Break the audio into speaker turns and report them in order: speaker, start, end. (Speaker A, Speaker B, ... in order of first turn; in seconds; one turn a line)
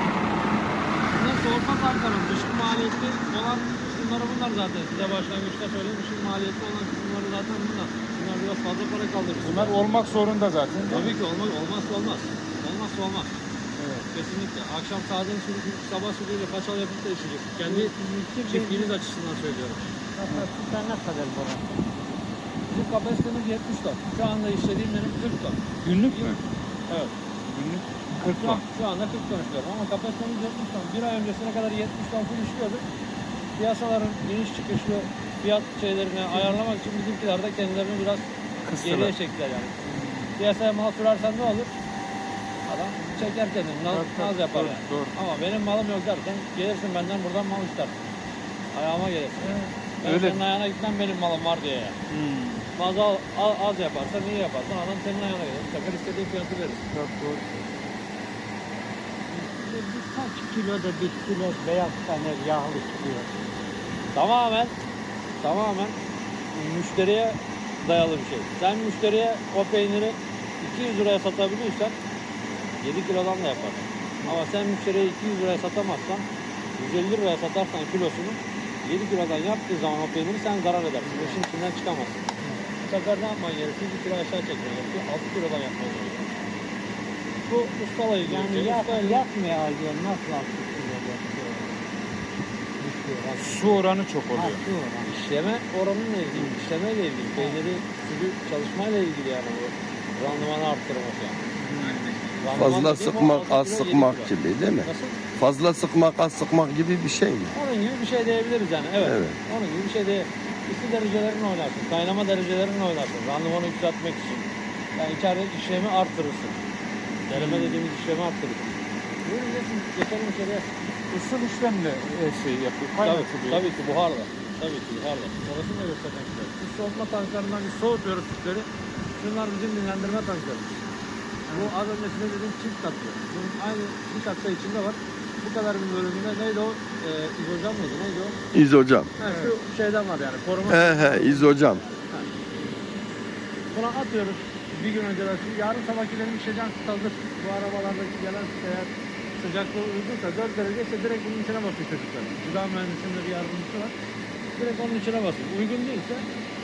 Speaker A: 1.1-9.8
Speaker B: 9.4-11.1
Speaker A: 10.9-13.3
Speaker B: 13.8-14.1
Speaker A: 14.1-19.9
Speaker C: 17.6-18.9
Speaker C: 20.1-21.9
Speaker A: 22.7-26.4
Speaker B: 25.8-26.4
Speaker B: 27.5-28.6
Speaker A: 28.3-32.8
Speaker A: 33.6-38.2
Speaker B: 38.6-39.1
Speaker A: 38.8-39.7
Speaker B: 39.8-40.3
Speaker A: 40.4-41.7
Speaker A: 42.7-48.0
Speaker B: 43.9-45.1
Speaker A: 48.7-52.0
Speaker B: 49.5-50.4
Speaker B: 52.1-52.7
Speaker A: 52.8-56.8
Speaker B: 56.9-57.4
Speaker C: 59.3-63.3
Speaker A: 64.1-64.8
Speaker A: 65.4-66.0
Speaker A: 66.5-71.9
Speaker A: 72.8-76.2
Speaker A: 76.8-82.2
Speaker A: 82.8-86.3
Speaker A: 87.5-89.2
Speaker C: 88.2-91.7
Speaker C: 92.8-93.8
Speaker B: 93.3-94.6
Speaker C: 94.3-95.2
Speaker A: 95.1-101.4
Speaker B: 101.6-102.7
Speaker A: 102.4-105.2
Speaker D: 102.5-107.5
Speaker A: 107.5-116.6
Speaker D: 109.0-109.4
Speaker A: 117.3-120.7
Speaker B: 117.3-117.8
Speaker B: 121.1-123.7
Speaker A: 123.0-130.9
Speaker A: 131.5-138.4
Speaker D: 138.5-139.1
Speaker A: 139.2-142.3
Speaker D: 140.7-141.8
Speaker A: 143.7-153.9
Speaker A: 154.6-156.3